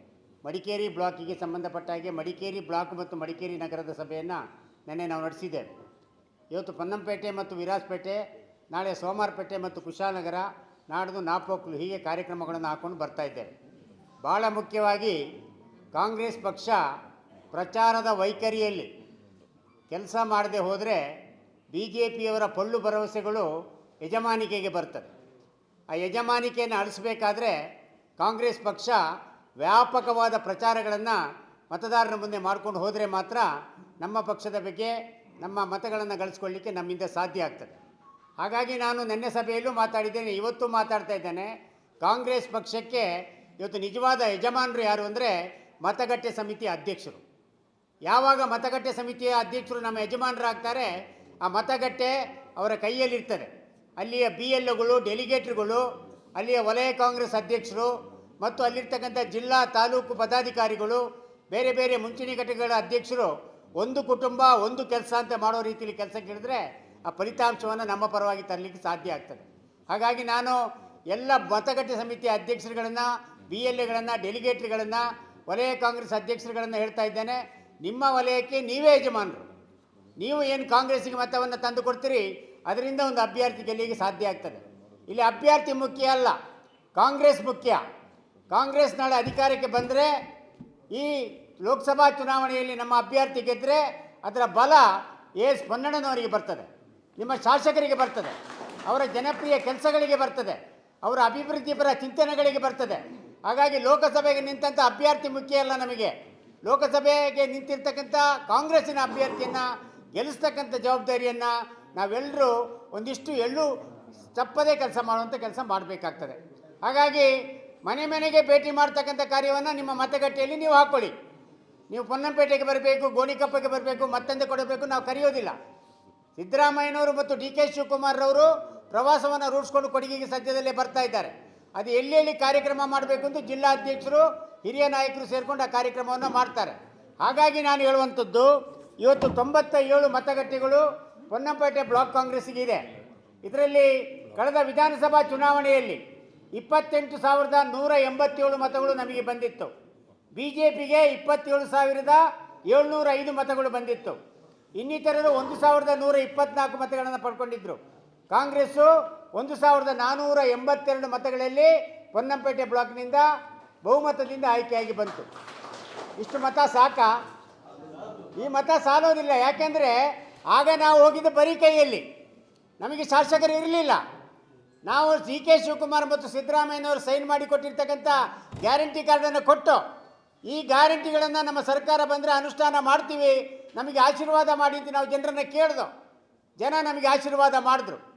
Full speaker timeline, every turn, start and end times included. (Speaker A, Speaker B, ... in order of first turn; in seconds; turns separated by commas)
Speaker A: 0.4-5.7, Speaker A: 6.5-13.5, Speaker A: 14.2-15.2, Speaker A: 15.9-16.8, Speaker A: 17.5-18.9, Speaker A: 19.9-21.0, Speaker A: 21.7-23.5, Speaker A: 24.0-25.1, Speaker A: 25.9-27.6, Speaker A: 28.2-29.0, Speaker A: 29.6-31.2, Speaker A: 31.7-33.5, Speaker A: 34.0-37.8, Speaker A: 38.4-41.5, Speaker A: 42.0-43.1, Speaker A: 43.6-47.2, Speaker A: 48.1-50.9, Speaker A: 51.4-55.8, Speaker A: 56.4-70.6, Speaker A: 71.1-79.4, Speaker A: 80.2-86.4, Speaker A: 87.0-87.8, Speaker A: 88.5-90.1, Speaker A: 90.9-94.8, Speaker A: 95.4-96.7, Speaker A: 97.2-98.3, Speaker A: 98.9-106.1, Speaker A: 106.6-113.7, Speaker A: 114.3-117.3, Speaker A: 117.9-121.1, Speaker A: 121.9-125.5, Speaker A: 126.4-142.9, Speaker A: 143.4-146.0, Speaker A: 146.6-149.7, Speaker A: 150.4-154.2, Speaker A: 154.8-157.8, Speaker A: 158.3-163.3, Speaker A: 163.9-165.3, Speaker A: 166.2-167.1, Speaker A: 168.4-170.0, Speaker A: 170.5-172.0, Speaker A: 172.8-174.0, Speaker A: 174.9-179.8, Speaker A: 180.5-185.9, Speaker A: 186.6-188.0